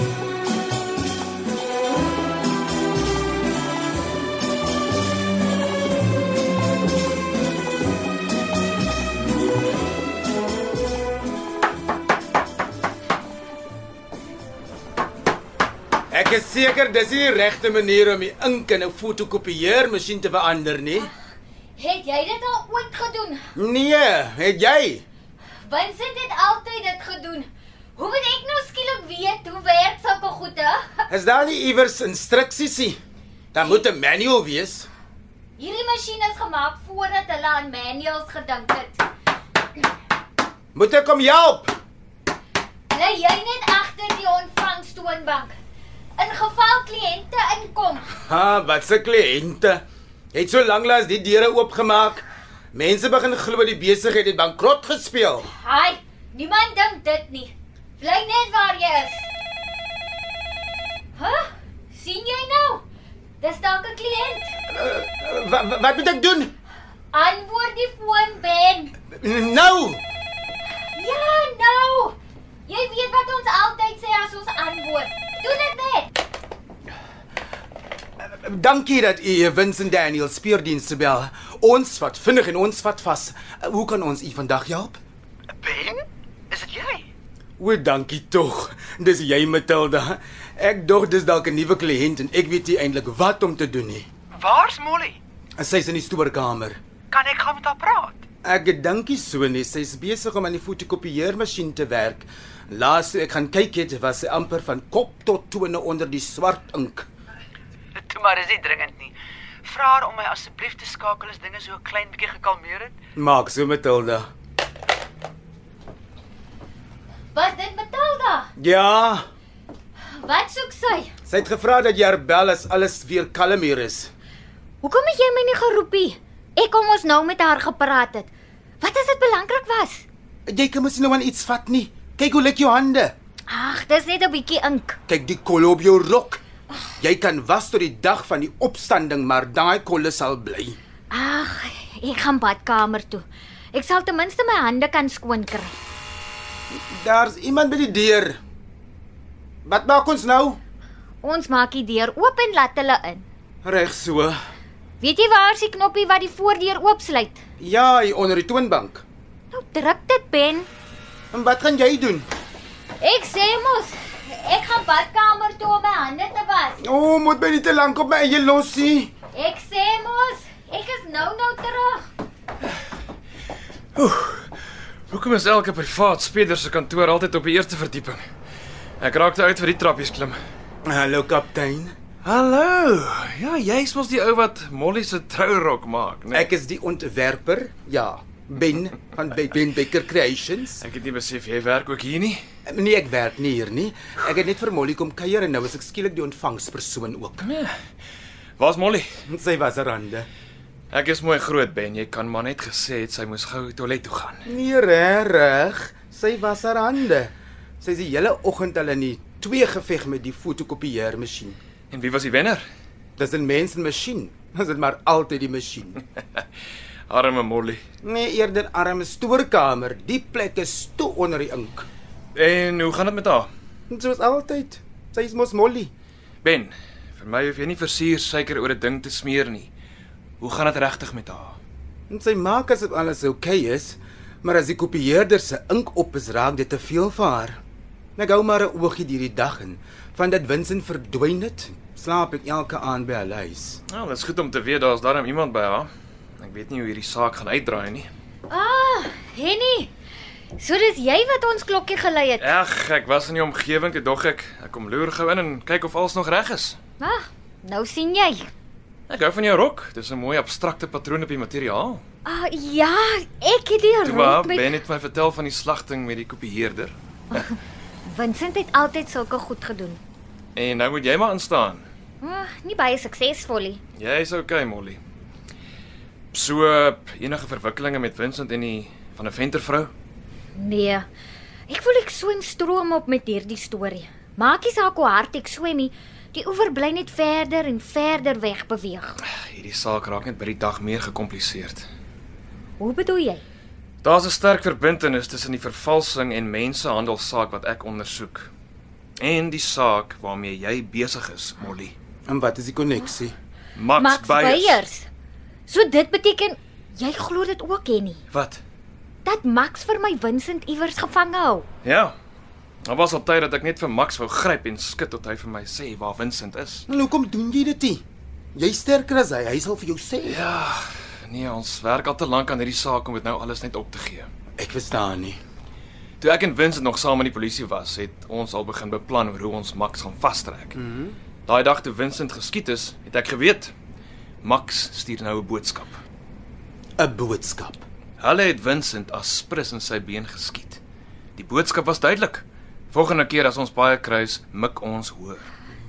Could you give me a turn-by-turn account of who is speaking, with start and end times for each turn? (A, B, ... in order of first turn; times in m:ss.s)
0:16.1-0:21.1 A
0:21.8-0:23.4 B
0:23.5-0:25.0 A
0:25.6-0:31.1 B
0:31.1-0:33.0 A
0:33.5-0:34.9 A
0:35.6-0:39.0 B
0:40.7-0:41.7 A
0:42.9-0:45.6 B
0:46.2-0:48.1 B
0:48.3-0:55.5 A
0:55.5-0:59.3 B
1:01.2-1:02.8 B
1:03.4-1:04.5 B
1:04.7-1:06.5 A
1:07.1-1:08.9 B
1:09.2-1:10.0 A
1:10.9-1:16.1 B
1:18.2-1:25.0 A
1:25.6-1:27.1 C
1:27.6-1:34.1 A
1:34.4-1:35.2 C
1:35.6-1:36.8 A
1:37.1-1:38.2 C
1:38.4-1:47.0 A
1:47.9-1:53.0 C
1:53.2-1:54.3 A
1:57.3-1:58.5 B
1:58.6-1:59.2 A
2:00.1-2:01.1 B
2:01.2-2:04.1 A
2:04.8-2:10.0 B
2:10.5-2:13.1 A
2:13.5-2:15.0 B
2:15.1-2:16.4 A
2:17.0-2:20.8 A
2:21.1-2:25.8 B
2:26.7-2:28.4 A
2:29.6-2:30.6 A
2:31.2-2:33.2 B
2:33.6-2:34.4 A
2:35.0-2:37.4 B
2:37.6-2:39.0 A
2:39.5-2:40.7 B
2:41.3-2:42.3 A
2:43.0-2:46.8 B
2:46.8-2:49.1 A
2:49.3-2:52.1 B
2:53.9-2:54.5 D
2:55.1-2:58.2 D
2:59.0-3:00.4 D
3:00.8-3:01.9 A
3:02.2-3:06.5 D
3:06.3-3:10.8 A
3:10.8-3:12.4 D
3:12.6-3:17.4 A
3:17.4-3:17.7 D
3:18.6-3:19.0 D
3:19.3-3:20.3 A
3:20.9-3:24.4 D
3:24.4-3:31.6 A
3:31.9-3:32.6 D
3:33.2-3:36.0 A
3:37.1-3:37.8 D
3:38.0-3:41.9 A
3:42.3-3:43.5 D
3:43.9-3:45.9 A
3:46.4-3:49.7 D
3:50.4-3:51.6 D
3:52.1-3:57.6 A
3:58.2-4:03.8 A
4:03.9-4:08.1 D
4:08.5-4:09.9 B
4:10.6-4:12.5 B
4:12.4-4:16.8 D
4:17.0-4:18.5 B
4:19.1-4:22.0 D
4:22.2-4:24.7 B
4:24.0-4:26.9 D
4:28.0-4:30.0 B
4:30.6-4:31.8 D
4:32.2-4:33.8 B
4:34.0-4:35.0 D
4:36.3-4:39.9 D
4:40.5-4:41.0 B
4:41.7-4:49.2 B
4:49.2-4:51.9 D
4:52.8-4:53.4 B
4:54.0-4:58.5 D
4:59.2-5:01.9 D
5:02.3-5:03.3 A
5:03.8-5:04.8 D
5:04.0-5:05.1 B
5:05.7-5:08.2 B
5:08.3-5:08.6 D
5:09.2-5:11.7 B
5:11.8-5:12.1 D
5:12.8-5:16.8 D
5:16.9-5:18.0 A
5:18.5-5:20.4 A
5:20.2-5:24.3 D
5:24.6-5:25.4 A
5:26.2-5:30.8 D
5:30.8-5:31.2 A
5:31.4-5:33.7 D
5:34.4-5:36.0 D
5:37.0-5:37.8 A
5:38.2-5:40.8 D
5:41.4-5:45.4 D